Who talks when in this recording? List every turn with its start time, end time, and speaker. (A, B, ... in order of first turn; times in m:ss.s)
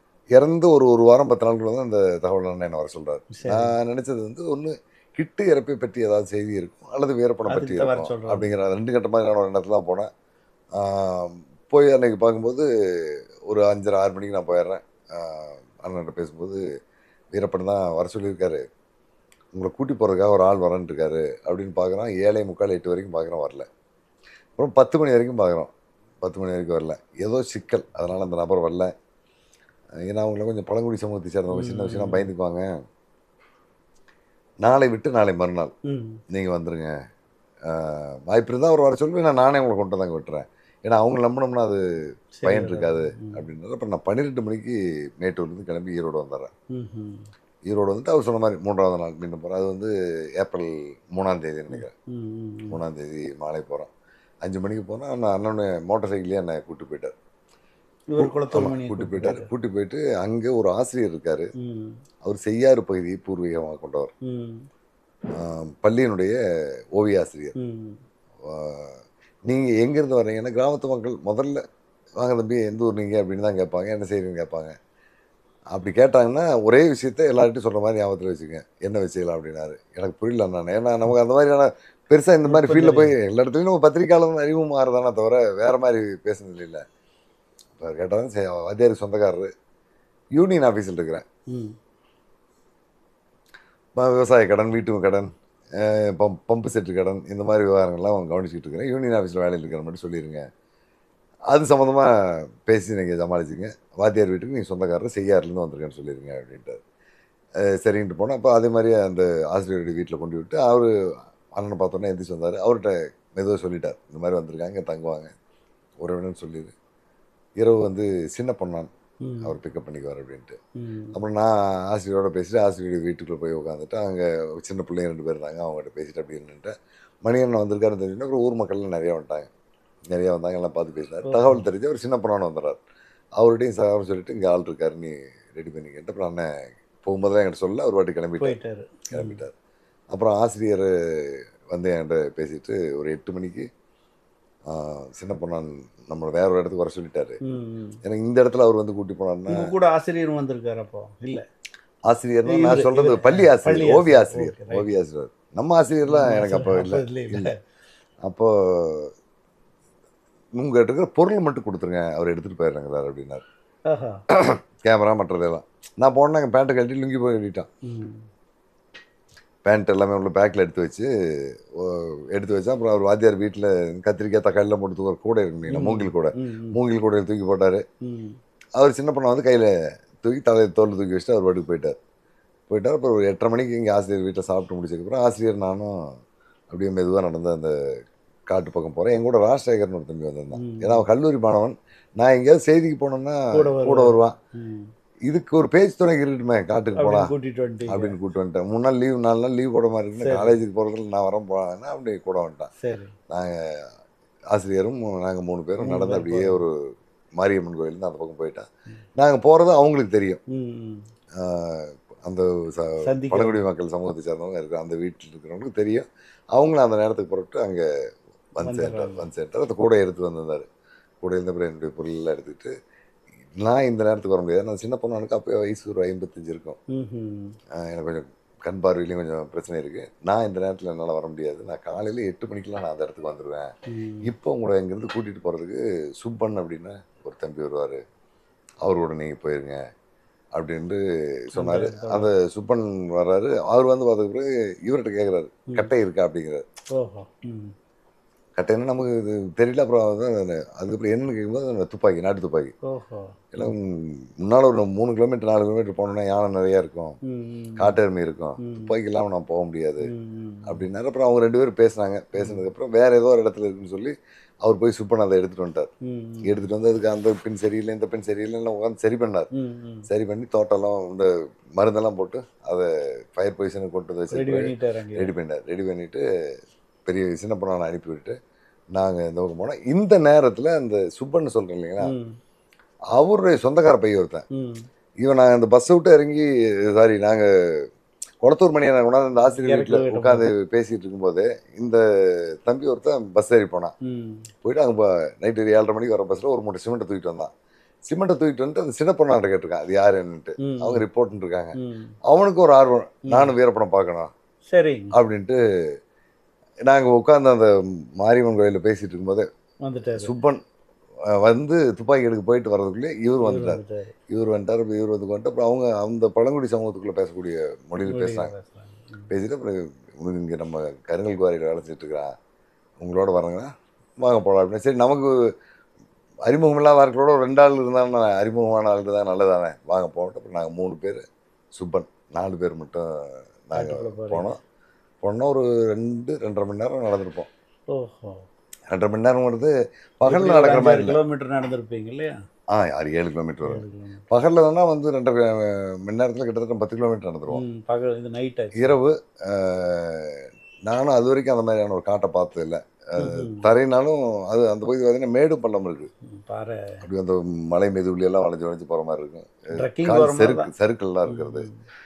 0:00.4-0:10.1 A
0:03.3-0:03.7 B
0:07.5-0:08.4 B
0:10.8-0:16.6 A
0:17.3-0:18.6 A
0:19.5-0:23.7 A
0:24.6-0:25.7 A
0:26.2-0:28.9 A
0:30.1-0:32.7 A
0:31.5-0:32.3 B
0:34.6-0:35.7 A
0:35.9-0:36.2 B
0:36.3-0:37.0 A
0:37.7-0:41.8 A
0:42.4-0:43.4 B
0:42.4-0:46.5 A
0:46.7-0:47.3 B
0:47.7-0:51.9 A
0:51.7-0:52.8 B
0:52.7-0:53.9 A
0:54.4-0:57.1 A
0:58.1-0:59.5 B
0:58.2-1:01.5 A
1:01.6-1:02.0 B
1:02.2-1:04.1 A
1:04.2-1:04.6 B
1:05.4-1:06.4 A
1:07.0-1:07.5 A
1:07.6-1:08.0 B
1:08.4-1:11.6 A
1:12.2-1:14.8 A
1:15.7-1:26.8 A
1:22.4-1:23.1 B
1:27.8-1:29.5 A
1:30.4-1:31.2 A
1:34.0-1:40.4 A
1:41.5-1:46.8 A
1:47.6-1:50.9 A
1:51.5-1:55.3 A
1:56.0-1:56.7 A
1:57.6-1:58.9 A
1:59.2-1:59.6 B
1:59.4-2:00.6 A
2:00.8-2:01.2 B
2:01.1-2:06.7 A
2:07.2-2:09.5 A
2:10.1-2:12.8 A
2:11.2-2:11.6 B
2:13.4-2:16.5 A
2:17.0-2:18.6 A
2:18.4-2:19.4 B
2:19.1-2:19.5 A
2:20.1-2:23.7 A
2:24.7-2:27.4 A
2:27.4-2:28.0 B
2:28.0-2:29.7 A
2:29.5-2:31.4 B
2:32.1-2:37.5 A
2:32.5-2:34.9 B
2:36.1-2:37.6 B
2:38.2-2:39.1 A
2:40.6-2:43.4 A
2:43.9-2:44.2 B
2:44.3-2:47.7 A
2:47.8-2:48.2 B
2:49.7-2:57.8 A
2:55.7-2:56.8 B
2:58.0-2:58.4 B
2:58.8-3:02.0 A
3:02.7-3:06.0 A
3:06.7-3:07.7 A
3:08.5-3:14.4 A
3:10.6-3:11.0 B
3:13.5-3:14.9 B
3:15.3-3:17.3 A
3:17.0-3:18.2 B
3:17.9-3:22.7 A
3:20.2-3:20.6 B
3:22.8-3:23.2 B
3:23.3-3:23.9 A
3:24.5-3:26.8 A
3:25.8-3:26.6 B
3:27.4-3:30.4 A
3:30.5-3:31.0 B
3:31.4-3:37.8 A
3:33.1-3:33.6 B
3:38.6-3:40.7 A
3:38.6-3:39.3 B
3:41.2-3:42.7 A
3:43.6-3:46.8 A
3:46.9-3:47.6 B
3:47.8-3:53.7 A
3:53.9-3:54.3 B
3:54.2-3:58.0 A
3:58.8-3:59.8 A
4:00.6-4:06.6 A
4:01.6-4:02.3 B
4:06.9-4:07.7 B
4:08.6-4:12.7 A
4:12.9-4:13.4 B
4:13.5-4:17.2 A
4:17.3-4:18.0 B
4:17.8-4:20.1 A
4:18.6-4:18.9 B
4:20.0-4:20.8 B
4:20.7-4:25.9 A
4:22.4-4:22.7 B
4:26.0-4:26.6 B
4:26.4-4:29.5 A
4:29.6-4:30.1 B
4:30.1-4:36.2 A
4:34.3-4:35.3 B
4:37.1-4:38.4 A
4:39.0-4:42.1 A
4:42.0-4:42.4 B
4:43.1-4:44.4 A
4:44.5-4:44.9 B
4:45.2-4:47.8 A
4:48.4-4:53.9 A
4:49.5-4:50.5 B
4:54.0-4:54.5 B
4:54.6-4:57.5 A
4:58.1-5:01.7 A
5:00.6-5:01.0 B
5:01.8-5:02.1 B
5:02.3-5:04.3 A
5:04.7-5:05.1 B
5:05.1-5:05.6 A
5:06.9-5:09.5 A
5:09.8-5:10.3 B
5:10.2-5:10.6 A
5:11.3-5:18.5 A
5:13.4-5:14.1 B
5:18.1-5:19.3 B
5:19.3-5:22.3 A
5:23.0-5:25.5 A
5:26.5-5:31.2 A
5:31.8-5:34.6 A
5:33.7-5:34.6 B
5:35.2-5:37.5 A
5:37.9-5:38.4 B
5:38.9-5:41.2 A
5:40.3-5:42.4 B
5:42.7-5:47.6 A
5:43.7-5:44.2 B
5:47.5-5:48.9 B
5:48.8-5:56.1 A
5:53.2-5:53.7 B
5:56.3-5:57.0 B
5:57.0-6:01.7 A
5:59.8-6:00.7 B
6:01.3-6:01.8 B